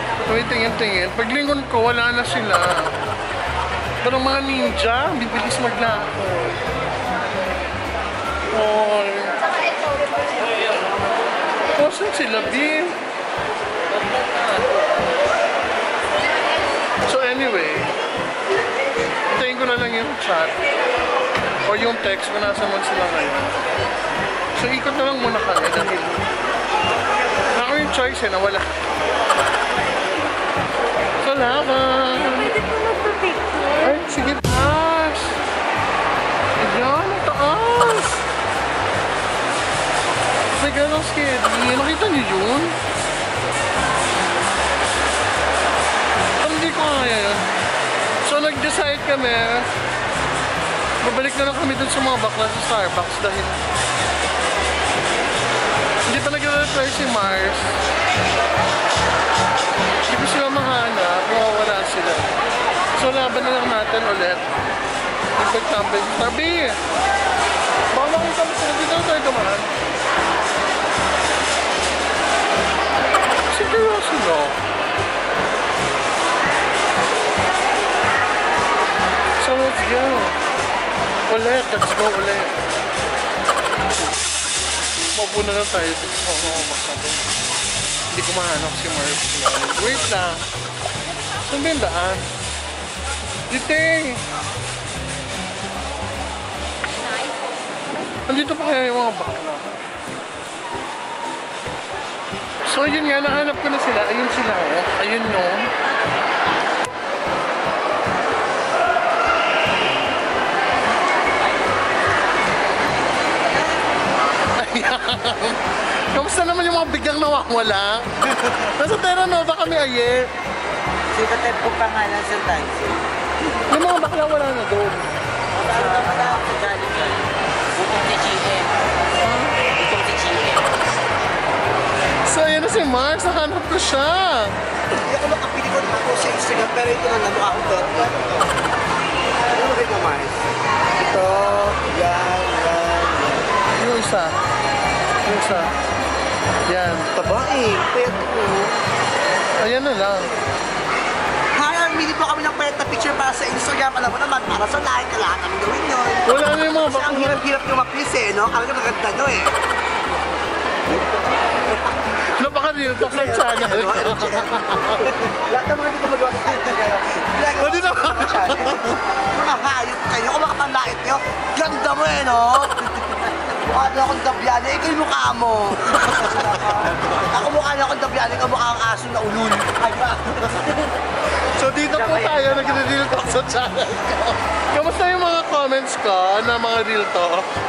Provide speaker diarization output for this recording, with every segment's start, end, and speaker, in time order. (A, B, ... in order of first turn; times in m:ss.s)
0:00.2-0:03.0 A
0:04.0-0:06.6 A
0:08.5-0:09.4 A
0:11.7-0:13.0 A
0:17.0-0:18.0 A
0:19.3-0:20.7 A
0:21.6-0:23.6 A
0:24.6-0:26.3 A
0:27.5-0:28.7 A
0:31.2-0:35.4 A
0:36.6-0:38.2 A
0:40.6-0:42.8 A
0:46.4-0:47.5 A
0:48.2-0:49.7 A
0:51.0-0:53.6 A
0:56.1-0:57.8 A
1:00.0-1:02.4 A
1:02.9-1:04.6 A
1:05.4-1:06.8 A
1:07.9-1:09.7 A
1:13.5-1:14.6 A
1:19.4-1:20.4 A
1:21.3-1:22.6 A
1:25.1-1:27.3 A
1:28.1-1:30.5 A
1:31.4-1:32.3 A
1:33.5-1:34.2 A
1:38.3-1:39.8 A
1:42.6-1:45.7 A
1:54.6-2:00.3 A
2:01.1-2:03.0 B
2:03.6-2:05.1 A
2:05.6-2:08.8 B
2:09.2-2:09.6 A
2:09.7-2:10.8 B
2:12.2-2:14.6 A
2:14.9-2:18.5 C
2:19.4-2:23.4 C
2:23.8-2:24.4 A
2:25.2-2:25.7 A
2:26.7-2:27.1 A
2:27.1-2:28.8 C
2:29.6-2:30.3 A
2:31.6-2:36.2 C
2:36.3-2:37.4 A
2:36.9-2:39.6 C
2:42.3-2:45.1 A
2:43.0-3:00.8 C
2:47.6-2:49.0 A
3:01.6-3:07.5 A
3:02.1-3:02.7 B